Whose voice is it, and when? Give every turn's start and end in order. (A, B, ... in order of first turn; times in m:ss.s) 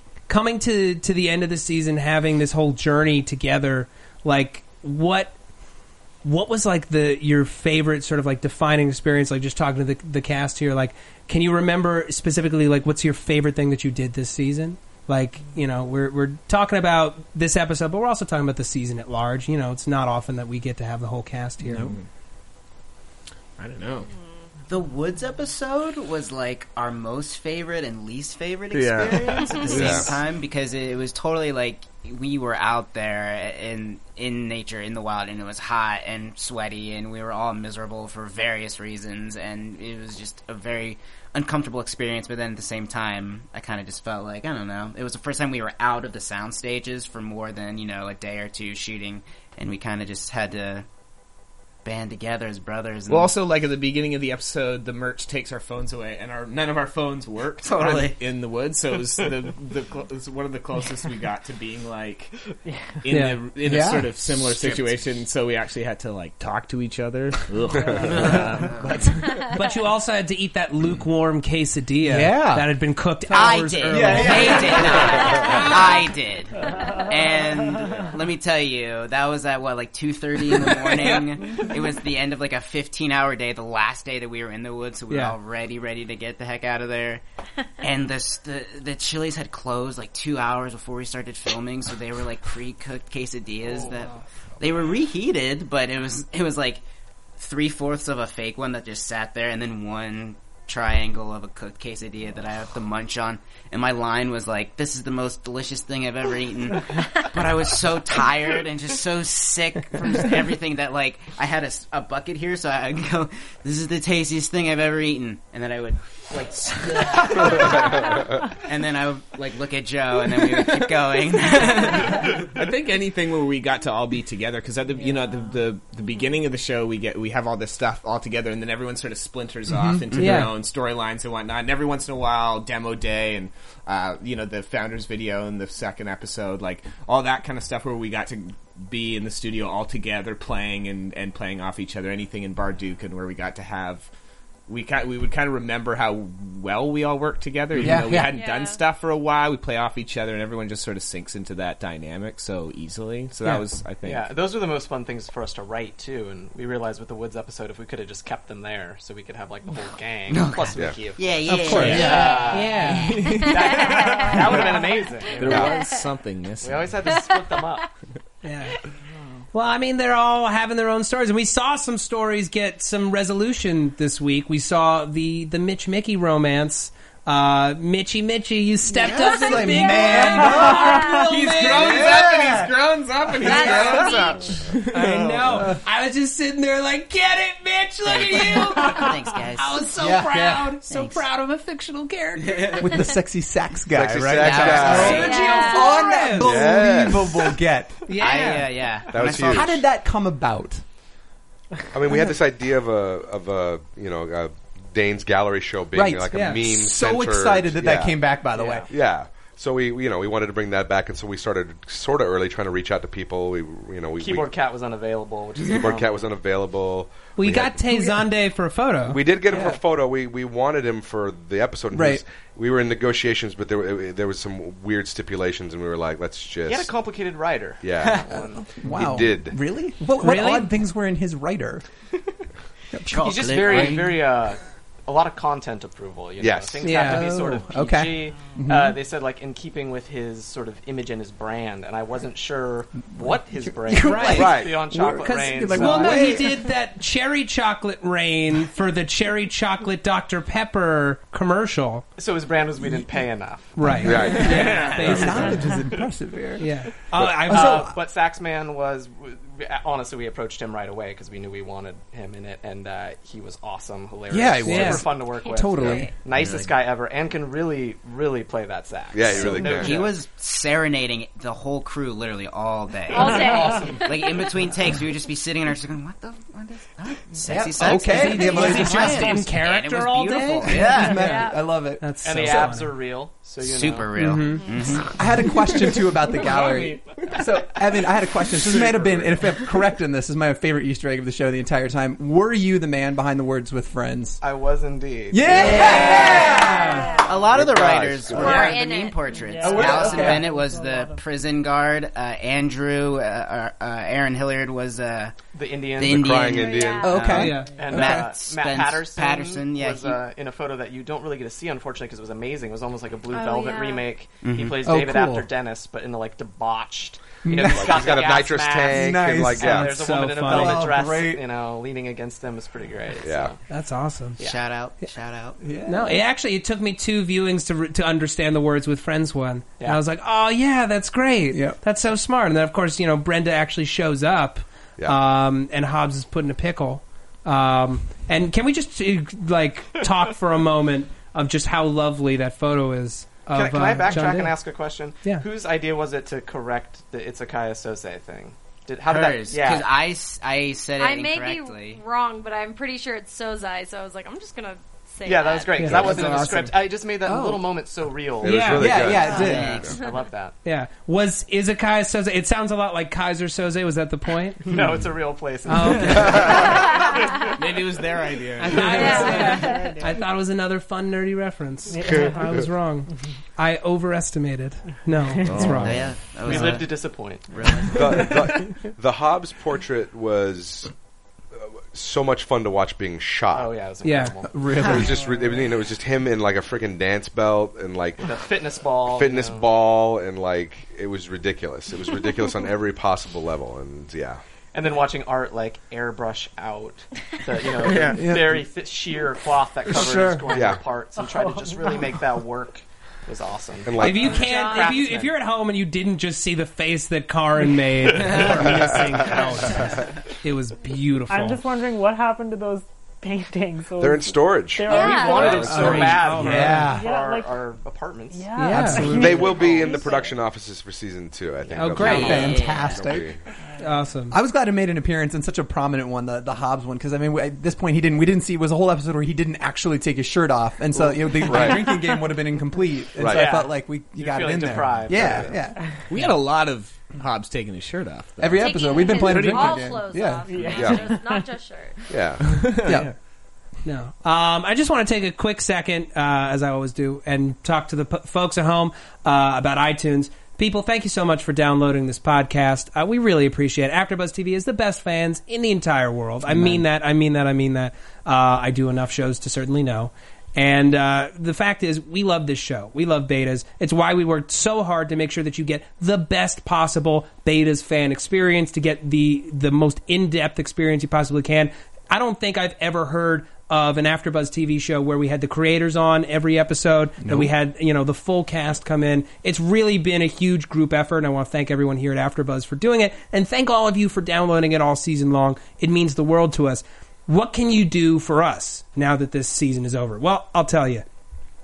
0:00.3-0:05.3 A
0:06.2-0:21.9 A
0:21.6-0:22.0 B
0:21.8-0:22.0 C
0:23.6-0:24.1 C
0:24.7-0:50.8 D
0:28.7-0:30.2 C
0:29.4-0:29.7 E
0:29.7-0:30.1 F
0:51.8-0:53.3 D
0:53.1-1:02.4 C
0:57.6-0:58.2 D
1:02.6-1:03.0 G
1:03.0-1:09.4 C
1:03.1-1:03.4 A
1:03.6-1:04.2 B
1:04.6-1:04.9 D
1:08.0-1:09.1 D
1:09.5-1:15.6 A
1:12.0-1:12.7 B
1:13.3-1:27.2 D
1:13.4-1:15.1 B
1:15.0-1:15.8 E
1:16.7-1:18.0 G
1:25.1-1:25.4 A
1:27.8-1:36.8 D
1:37.4-2:02.4 D
2:02.0-2:24.1 C
2:09.7-2:10.0 B
2:10.1-2:10.5 A
2:24.7-2:34.3 C
2:27.7-2:28.3 B
2:28.2-2:28.8 E
2:34.0-2:45.8 H
2:40.3-2:43.3 D
2:41.5-2:42.3 B
2:41.8-2:42.2 C
2:41.8-2:43.2 A
2:42.1-2:42.6 E
2:42.8-2:47.1 C
2:43.4-2:46.0 E
2:46.6-2:47.8 H
2:47.2-2:47.6 E
2:48.4-2:48.8 A
2:49.5-3:02.2 A
2:59.0-2:59.3 D
2:59.1-3:02.8 B
3:01.0-3:05.7 C
3:03.4-3:04.0 B
3:03.4-3:04.6 E
3:03.6-3:04.0 A
3:04.9-3:12.9 A
3:08.0-3:09.9 D
3:10.0-3:10.8 B
3:10.8-3:11.2 D
3:12.6-3:18.0 B
3:13.9-3:15.3 F
3:14.4-3:15.4 D
3:14.5-3:16.5 A
3:15.0-3:16.2 E
3:16.4-3:17.6 F
3:18.1-3:18.7 A
3:18.1-3:19.8 D
3:19.1-3:19.7 F
3:19.2-3:20.8 B
3:21.9-3:28.2 F
3:25.9-3:28.9 B
3:26.3-3:26.6 A
3:28.5-3:28.9 H
3:28.9-3:34.5 F
3:34.2-3:36.2 H
3:35.7-3:38.2 F
3:37.4-3:39.2 A
3:39.1-3:46.9 F
3:39.5-3:39.8 B
3:41.9-3:42.2 B
3:46.6-3:48.7 H
3:47.8-3:49.6 F
3:48.6-3:51.8 B
3:50.2-3:50.7 A
3:53.1-3:54.3 D
3:53.1-4:06.4 H
3:56.4-3:57.2 F
3:56.8-3:57.3 A
3:56.9-3:59.0 B
4:03.2-4:06.6 B
4:04.0-4:12.0 A
4:04.3-4:04.8 F
4:12.2-4:14.8 H
4:13.8-4:15.6 A
4:13.8-4:16.7 B
4:14.0-4:15.6 F
4:14.4-4:15.2 C
4:16.6-4:17.9 A
4:17.5-4:17.9 B
4:17.5-4:30.2 H
4:24.3-4:26.1 B
4:24.6-4:25.0 A
4:25.4-4:26.1 E
4:26.4-4:26.6 D
4:29.1-4:30.0 F
4:29.4-4:33.5 D
4:33.1-4:34.3 E
4:33.1-4:34.5 H
4:34.0-4:41.3 D
4:37.4-4:39.5 B
4:37.8-4:41.5 A
4:40.6-4:42.5 B
4:41.0-4:41.6 E
4:42.0-4:42.9 A
4:42.2-4:44.1 H
4:43.6-4:45.1 D
4:44.2-4:44.7 A
4:45.1-4:54.4 B
4:46.6-4:46.9 H
4:48.8-4:49.3 H
4:54.4-4:56.6 H
4:55.3-4:57.1 B
4:55.6-4:56.4 D
4:55.8-4:57.0 A
4:56.0-4:57.4 E
4:57.2-5:05.4 D
4:57.3-4:58.8 F
4:58.3-4:59.8 E
4:59.4-5:01.2 G
4:59.6-5:00.5 B
5:05.5-5:06.5 H
5:06.0-5:10.2 D
5:06.0-5:07.2 F
5:06.4-5:07.3 E
5:07.0-5:08.3 B
5:07.3-5:07.7 A
5:07.3-5:23.6 H
5:13.3-5:14.1 E
5:14.4-5:14.8 D
5:14.8-5:15.5 B
5:17.4-5:18.1 B
5:17.5-5:20.0 F
5:18.9-5:19.8 B
5:19.6-5:20.9 A
5:20.4-5:21.4 B
5:23.2-5:23.5 F
5:23.7-5:24.4 A
5:24.4-5:25.6 D
5:25.6-5:26.1 B
5:25.8-5:44.6 A
5:31.5-5:31.8 B
5:43.5-5:50.0 H
5:49.0-5:52.0 D
5:51.0-5:56.0 E
5:55.2-6:00.5 H
5:55.8-5:56.7 A
5:57.2-5:57.6 B
5:58.4-6:00.0 F
5:58.4-5:59.0 A
5:58.6-5:59.8 B
5:59.3-6:00.0 D
6:00.6-6:04.7 A
6:04.7-6:07.5 H
6:05.6-6:06.6 A
6:07.5-6:09.4 C
6:08.6-6:16.8 A
6:08.8-6:10.0 E
6:09.0-6:10.2 G
6:11.9-6:12.6 G
6:12.0-6:12.4 F
6:15.5-6:16.0 C
6:15.6-6:18.3 D
6:16.4-6:18.4 H
6:17.9-6:20.9 F
6:21.6-6:23.8 F
6:23.5-6:25.0 H
6:24.0-6:24.3 A
6:24.5-6:25.2 B
6:24.8-6:28.3 F
6:28.2-6:29.7 H
6:29.0-6:34.4 F
6:34.7-6:45.3 H
6:37.8-6:38.2 C
6:38.1-6:38.6 B
6:39.9-6:40.6 B
6:40.5-6:40.8 F
6:43.8-6:44.4 F
6:44.0-6:51.6 A
6:44.2-6:45.0 E
6:48.3-6:48.7 H
6:48.6-6:49.1 F
6:51.3-6:56.2 G
6:54.0-6:56.1 F
6:54.9-6:55.7 E
6:54.9-7:00.0 H
6:55.5-6:56.9 A
6:55.7-6:57.1 B
6:56.8-6:57.5 G
6:58.3-7:00.2 G
6:58.5-6:59.4 A
6:58.7-6:59.0 B
6:59.0-7:03.4 F
7:01.6-7:02.6 H
7:01.8-7:02.5 A
7:02.0-7:03.0 D
7:02.0-7:03.3 B
7:03.8-7:04.4 A
7:04.3-7:15.8 B
7:11.4-7:11.9 F
7:13.2-7:13.6 F
7:13.2-7:15.6 H
7:15.2-7:15.4 F
7:16.1-7:19.8 C
7:18.4-7:20.6 B
7:18.5-7:22.2 E
7:20.5-7:21.4 G
7:20.7-7:21.1 F
7:22.1-7:22.7 F
7:22.4-7:23.0 C
7:22.8-7:23.1 B
7:23.8-8:11.0 A
7:36.5-7:36.8 B
7:57.2-7:57.5 B